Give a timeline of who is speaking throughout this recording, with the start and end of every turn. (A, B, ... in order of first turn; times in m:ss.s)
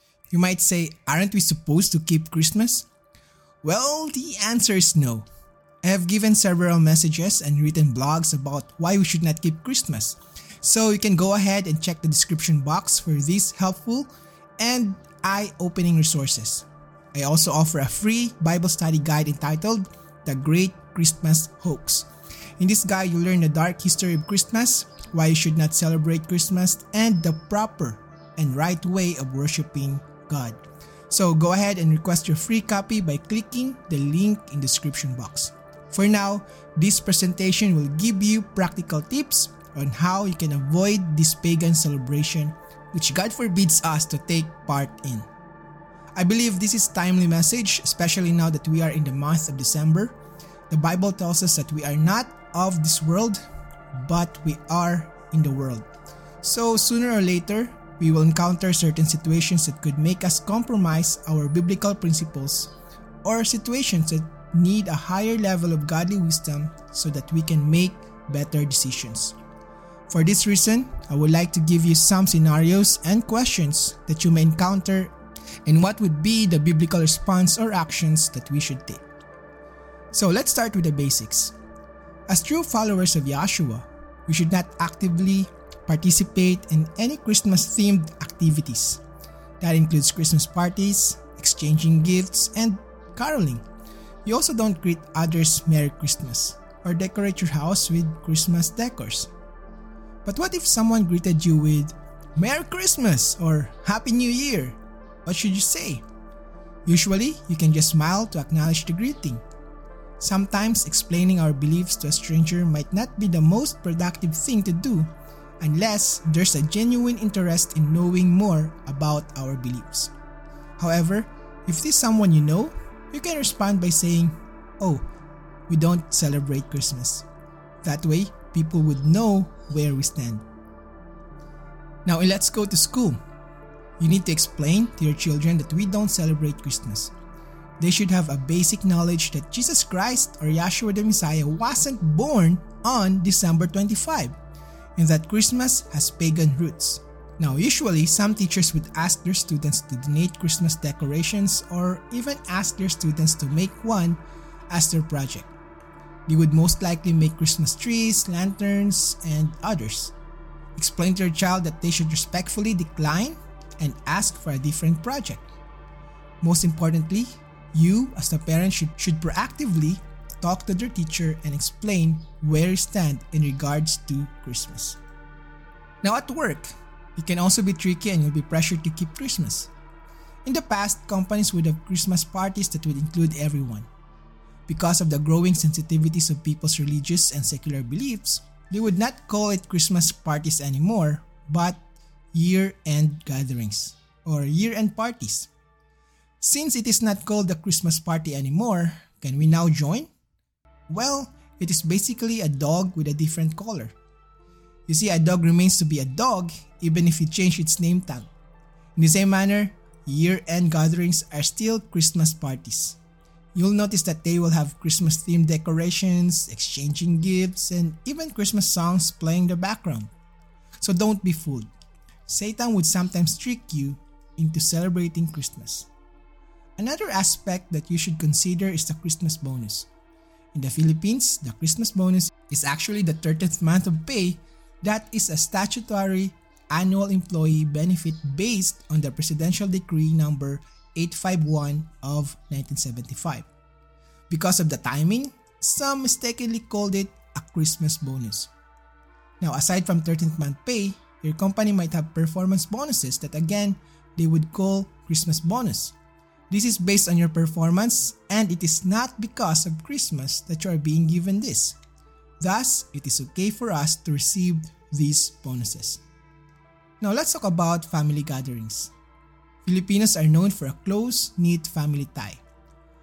0:00.3-0:02.9 A
0:03.6-0:05.2 A
0:05.8-0:22.1 A
0:22.6-0:45.3 A
0:46.2-0:50.2 A
0:50.7-0:53.4 A
0:53.9-0:55.9 A
0:56.4-1:09.3 A
1:10.1-1:15.1 A
1:15.6-1:19.0 A
1:20.1-1:21.5 A
1:22.3-1:29.0 A
1:29.6-1:33.6 A
1:34.2-1:39.3 A
1:40.2-1:46.0 A
1:46.8-1:49.4 A
1:50.2-2:00.1 A
2:00.8-2:05.0 A
2:05.7-2:07.2 A
2:07.8-2:10.4 A
2:12.0-2:13.2 A
2:14.0-2:17.1 A
2:17.8-2:24.3 A
2:25.0-2:34.2 A
2:34.7-2:35.5 A
2:36.3-2:40.1 A
2:40.8-2:45.5 A
2:46.4-2:55.0 A
2:56.0-2:59.7 A
3:00.4-3:03.9 A
3:04.7-3:11.8 A
3:12.3-3:15.5 A
3:16.4-3:20.1 A
3:20.9-3:23.9 A
3:24.9-3:28.3 A
3:29.0-3:33.0 A
3:33.5-3:40.1 A
3:40.8-3:41.7 A
3:42.3-3:45.9 A
3:46.8-3:49.9 A
3:50.5-4:03.5 A
4:04.3-4:08.5 A
4:09.4-4:15.9 A
4:16.5-4:21.8 A
4:22.4-4:26.0 A
4:27.0-4:28.9 A
4:29.6-4:32.4 A